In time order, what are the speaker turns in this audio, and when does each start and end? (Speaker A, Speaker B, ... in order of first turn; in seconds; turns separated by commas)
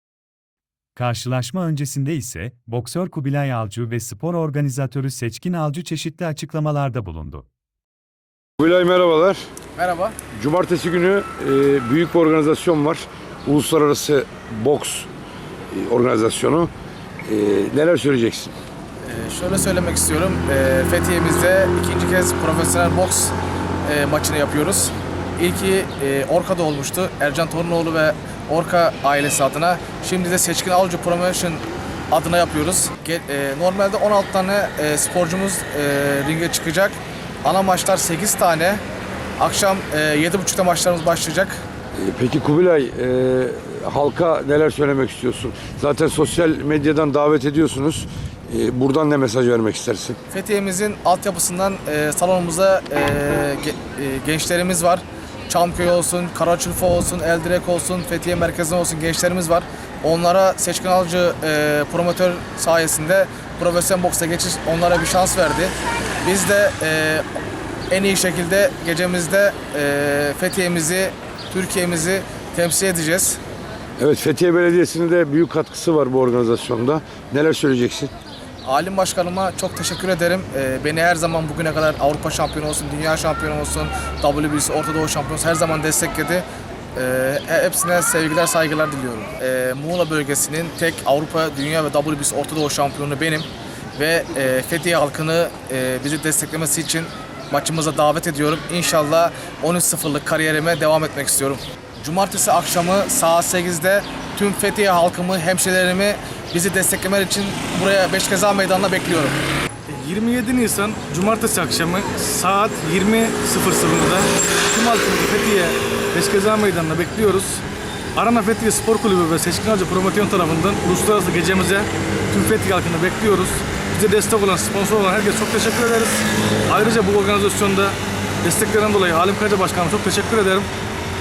Speaker A: 0.9-7.5, Speaker B: 8.6-9.4, Speaker C: 9.8-10.2, Speaker B: 10.3-15.1, Speaker B: 15.7-16.7, Speaker B: 17.2-18.5, Speaker C: 19.0-38.8, Speaker C: 39.4-41.6, Speaker B: 42.0-50.2, Speaker C: 50.3-67.2, Speaker C: 67.9-73.4, Speaker B: 74.0-78.1, Speaker C: 78.6-109.4, Speaker D: 109.9-117.6, Speaker D: 118.1-130.7